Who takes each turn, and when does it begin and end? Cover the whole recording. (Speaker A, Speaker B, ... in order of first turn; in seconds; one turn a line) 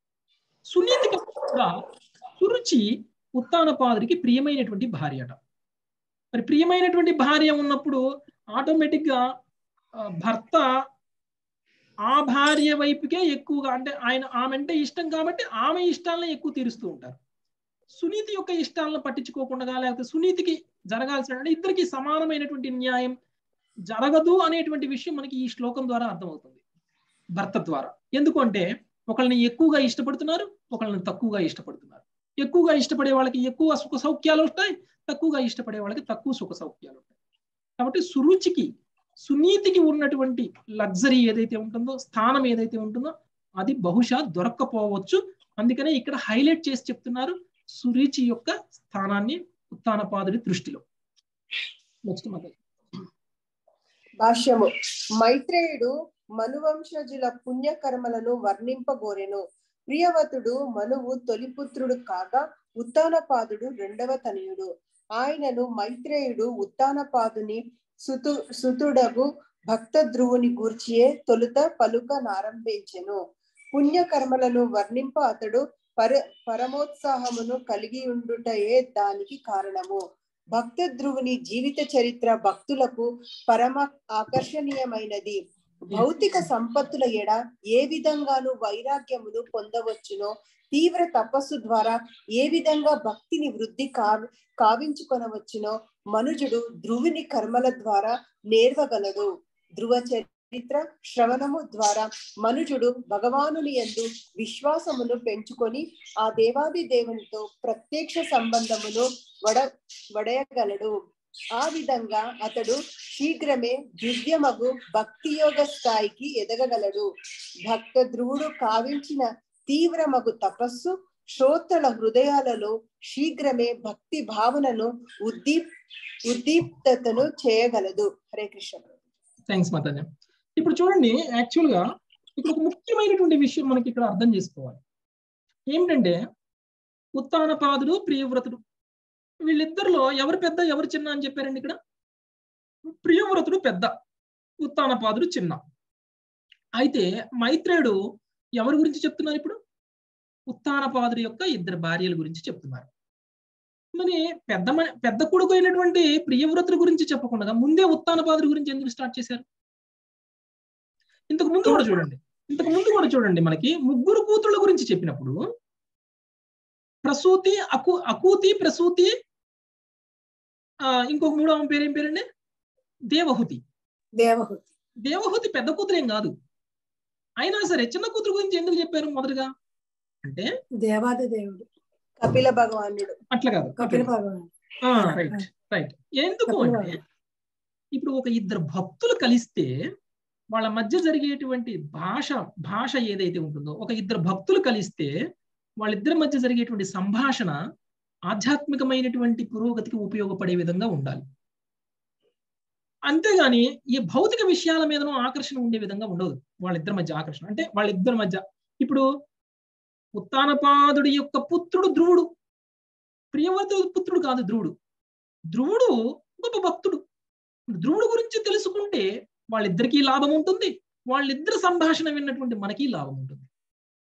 Speaker A: 0.7-1.8
Speaker A: 2.4-5.4
Speaker A: 6.3-8.0
Speaker A: 8.5-9.2
Speaker A: 10.0-10.7
Speaker A: 12.1-17.2
Speaker A: 17.9-23.1
Speaker A: 23.9-26.6
Speaker A: 27.4-37.1
Speaker A: 37.8-38.7
Speaker A: 39.2-50.8
Speaker A: 52.1-52.6
Speaker B: 54.2-73.2
Speaker B: 73.7-80.0
Speaker B: 80.5-85.4
Speaker B: 85.9-111.0
Speaker B: 111.6-117.1
Speaker B: 117.7-125.7
Speaker B: 126.3-128.9
Speaker A: 129.5-131.8
Speaker A: 132.4-134.8
Speaker A: 135.7-136.2
Speaker A: 137.2-138.6
Speaker A: 139.5-141.8
Speaker A: 142.9-143.9
Speaker A: 144.6-145.6
Speaker A: 146.8-148.0
Speaker A: 148.6-149.6
Speaker A: 150.5-152.9
Speaker A: 153.9-159.4
Speaker A: 161.3-165.4
Speaker A: 167.1-169.1
Speaker A: 170.9-172.2
Speaker A: 173.1-173.6
Speaker C: 174.2-174.7
Speaker A: 175.1-176.3
Speaker A: 177.4-179.5
Speaker C: 180.8-181.7
Speaker B: 182.2-183.2
Speaker A: 183.3-184.1
Speaker C: 183.8-184.5
Speaker A: 184.8-187.0
Speaker C: 186.5-187.0
Speaker A: 188.0-189.7
Speaker A: 190.5-195.1
Speaker A: 195.8-197.6
Speaker A: 198.3-201.2
Speaker A: 203.1-209.1
Speaker A: 210.2-212.3
Speaker A: 213.3-214.7
Speaker A: 215.5-217.0
Speaker A: 217.8-223.5